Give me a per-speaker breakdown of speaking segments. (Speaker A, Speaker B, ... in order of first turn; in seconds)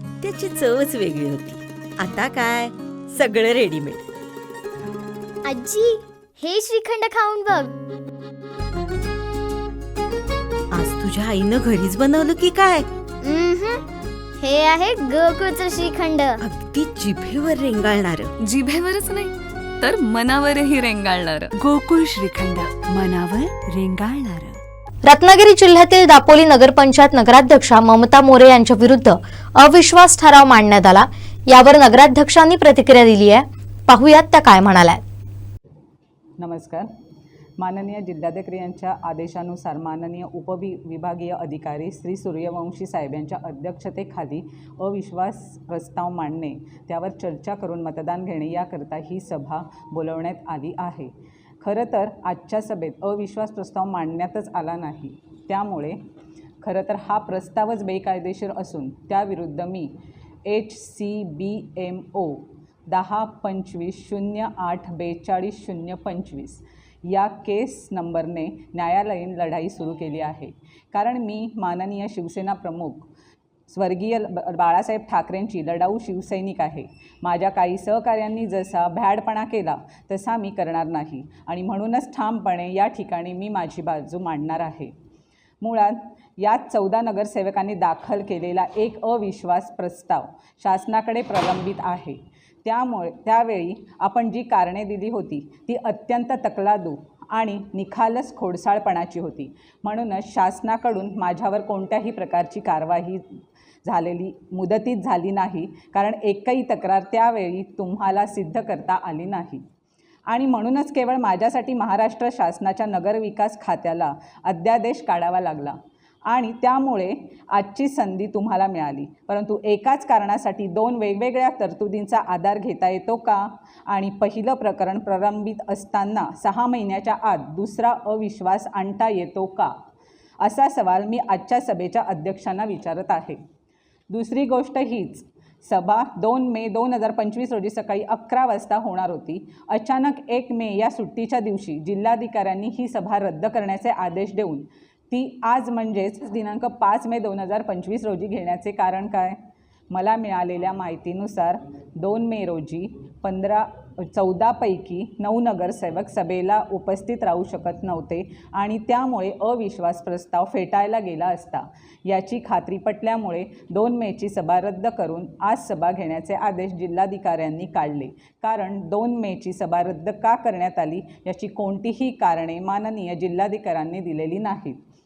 Speaker A: 0.2-4.0, 10.7-12.8, 16.4-18.3
Speaker B: 5.4-7.7, 13.2-13.8, 14.4-16.4
Speaker C: 18.4-21.5
Speaker D: 21.6-24.6
Speaker E: 25.1-35.0
Speaker F: 36.4-36.9, 37.6-56.0, 56.6-59.9, 60.5-73.1, 73.7-84.9, 85.6-103.2, 103.8-109.6, 110.3-129.7, 130.4-133.4, 134.1-149.4, 149.9-174.8